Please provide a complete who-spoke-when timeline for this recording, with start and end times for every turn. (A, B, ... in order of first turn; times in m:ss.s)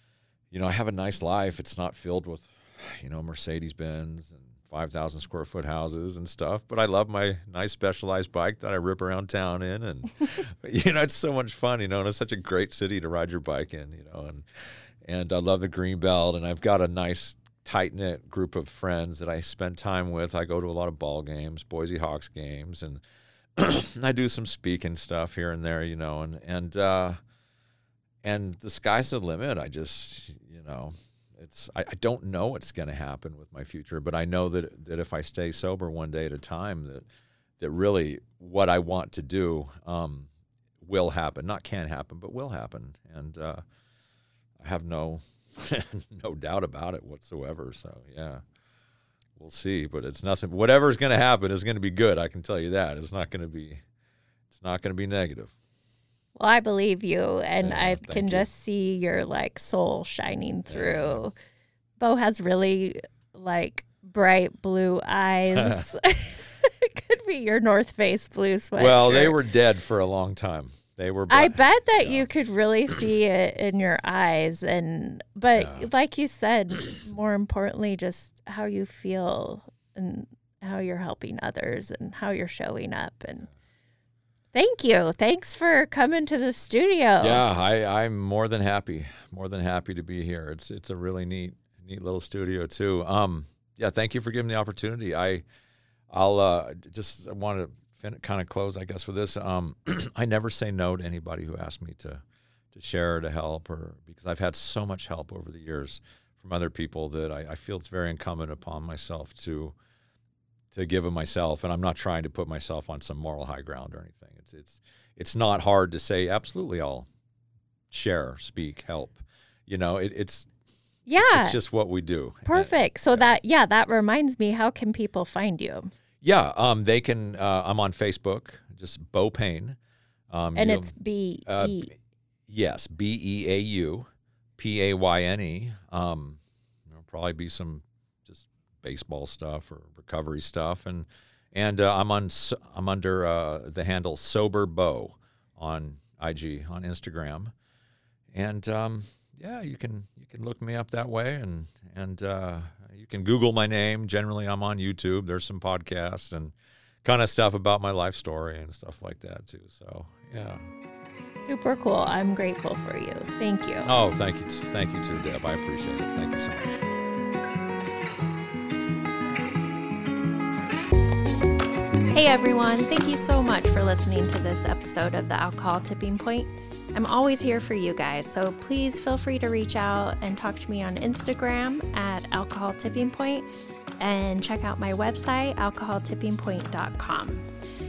0:00.5-0:14.4 A
0:15.0-0:23.0 A
0:23.6-0:27.2 A
0:28.2-0:37.1 A
0:37.6-0:40.3 A
0:40.8-0:43.6 A
0:44.6-0:48.4 A
0:49.4-0:53.8 A
0:54.5-0:55.5 A
0:56.4-1:01.3 B
0:57.6-0:58.5 A
1:00.7-1:01.2 A
1:02.0-1:09.4 B
1:05.5-1:05.9 A
1:08.8-1:12.3 A
1:11.3-1:23.5 B
1:15.6-1:15.9 A
1:24.5-1:27.4 B
1:27.2-1:35.4 A
1:36.1-1:49.8 A
1:50.7-1:57.1 A
1:57.9-2:00.5 A
2:01.1-2:01.6 B
2:01.2-2:03.3 A
2:02.5-2:05.9 B
2:06.2-2:09.8 A
2:10.3-2:10.9 A
2:10.6-2:11.9 B
2:11.5-2:11.9 A
2:12.5-2:27.5 A
2:28.3-2:40.6 A
2:41.4-2:43.9 B
2:43.8-2:46.9 A
2:52.1-3:03.5 B
3:04.0-3:07.5 B